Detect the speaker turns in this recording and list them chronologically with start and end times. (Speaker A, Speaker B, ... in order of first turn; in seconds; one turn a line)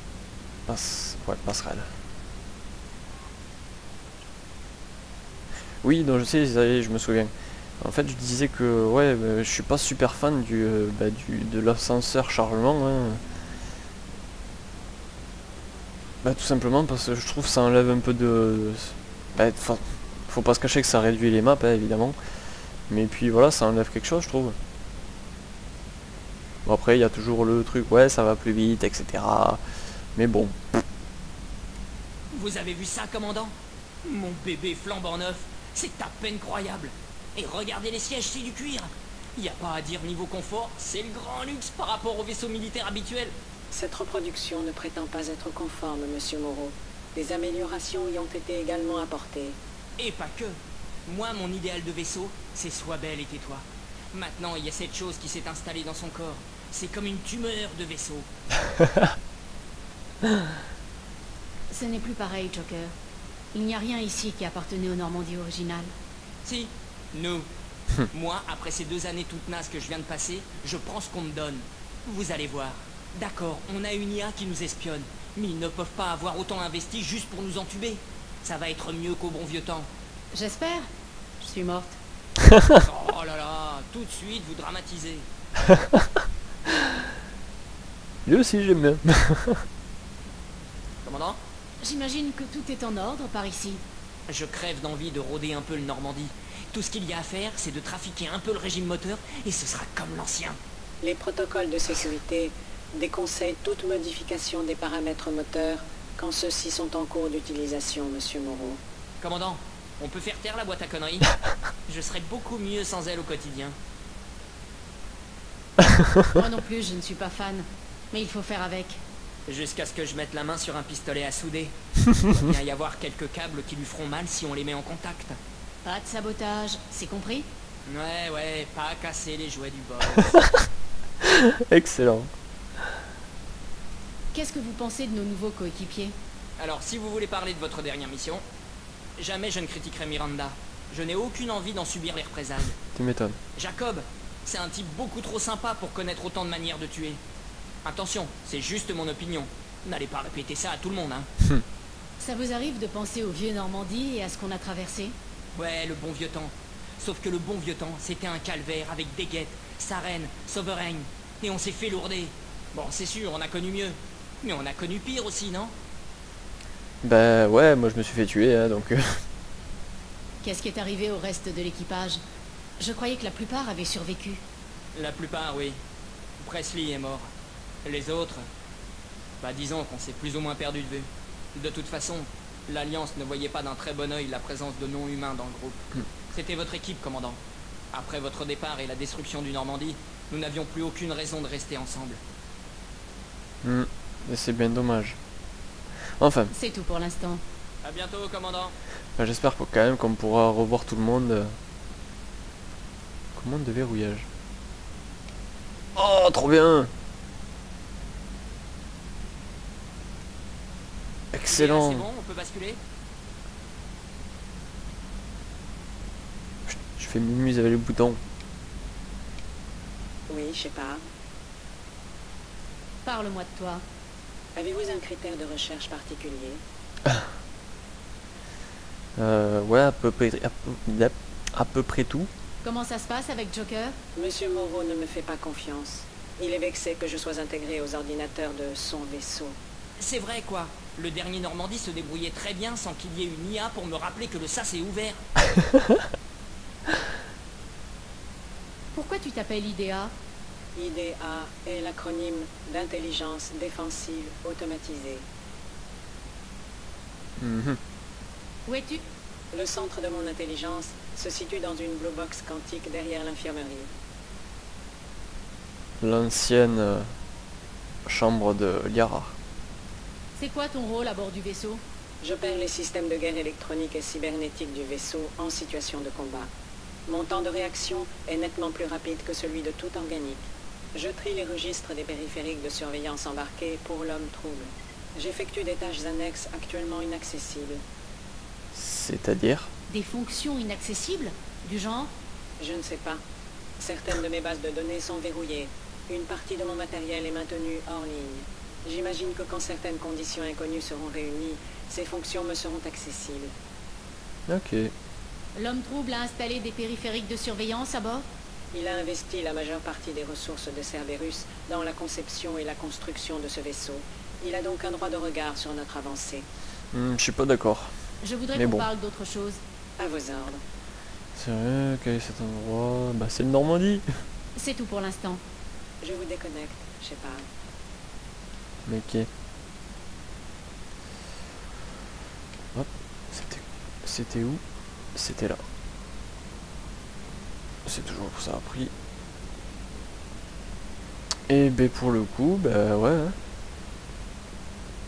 Speaker A: 0.7-1.9
Speaker A: 5.8-13.2
Speaker A: 16.2-22.2
Speaker A: 22.9-24.6
Speaker A: 26.6-29.6
Speaker A: 30.1-30.8
Speaker B: 32.3-33.5
Speaker B: 34.0-43.3
Speaker C: 43.7-49.6
Speaker B: 50.0-58.3
Speaker D: 61.7-62.9
Speaker D: 63.5-65.9
Speaker B: 66.5-67.5
Speaker B: 68.1-79.9
Speaker D: 80.3-80.9
Speaker D: 81.4-82.0
Speaker A: 82.4-82.8
Speaker B: 82.8-85.3
Speaker A: 85.7-86.1
Speaker A: 88.3-89.7
Speaker B: 91.0-91.4
Speaker D: 91.8-93.8
Speaker B: 94.3-100.6
Speaker C: 101.0-108.8
Speaker B: 109.2-111.3
Speaker B: 111.9-113.8
Speaker D: 116.3-119.0
Speaker B: 119.5-125.4
Speaker D: 125.8-127.5
Speaker B: 127.9-130.4
Speaker A: 131.2-132.3
Speaker D: 134.3-136.2
Speaker B: 136.6-138.4
Speaker B: 139.2-142.8
Speaker A: 142.9-143.4
Speaker B: 143.6-147.2
Speaker B: 147.8-151.3
Speaker D: 152.2-155.2
Speaker B: 155.6-165.7
Speaker A: 167.0-169.2
Speaker D: 170.4-172.2
Speaker D: 172.8-174.4
Speaker B: 174.9-175.8
Speaker B: 176.4-177.3
Speaker B: 177.8-178.4
Speaker B: 179.4-187.4
Speaker B: 187.9-192.2
Speaker A: 193.6-195.2
Speaker A: 196.2-196.5
Speaker D: 196.5-197.4
Speaker B: 197.8-198.7
Speaker A: 199.2-201.6
Speaker A: 203.3-204.3
Speaker A: 205.9-206.9
Speaker A: 211.3-212.1
Speaker B: 211.5-212.8
Speaker A: 216.7-218.2
Speaker C: 220.3-221.0
Speaker D: 223.0-223.8
Speaker C: 224.6-226.6
Speaker A: 229.2-232.3
Speaker D: 232.6-234.0
Speaker C: 234.2-239.6
Speaker B: 240.0-245.2
Speaker D: 248.9-250.1
Speaker C: 250.8-255.2
Speaker A: 257.4-257.8
Speaker D: 258.7-259.0
Speaker C: 259.5-263.9
Speaker A: 266.0-267.1
Speaker A: 268.1-269.4
Speaker D: 270.4-271.8
Speaker C: 272.2-276.5
Speaker C: 277.1-287.8
Speaker A: 288.7-289.7
Speaker D: 289.9-292.1
Speaker C: 292.6-293.2
Speaker C: 293.8-303.5
Speaker A: 304.5-304.9
Speaker D: 305.6-308.3
Speaker C: 308.7-316.5
Speaker A: 316.9-317.9
Speaker D: 318.2-319.6
Speaker A: 318.5-318.9
Speaker C: 320.0-320.6
Speaker A: 321.4-324.2
Speaker D: 324.6-325.4
Speaker C: 326.0-327.4
Speaker A: 328.9-329.3
Speaker A: 332.7-334.6
Speaker A: 335.1-335.6
Speaker A: 337.9-338.9
Speaker A: 341.5-343.4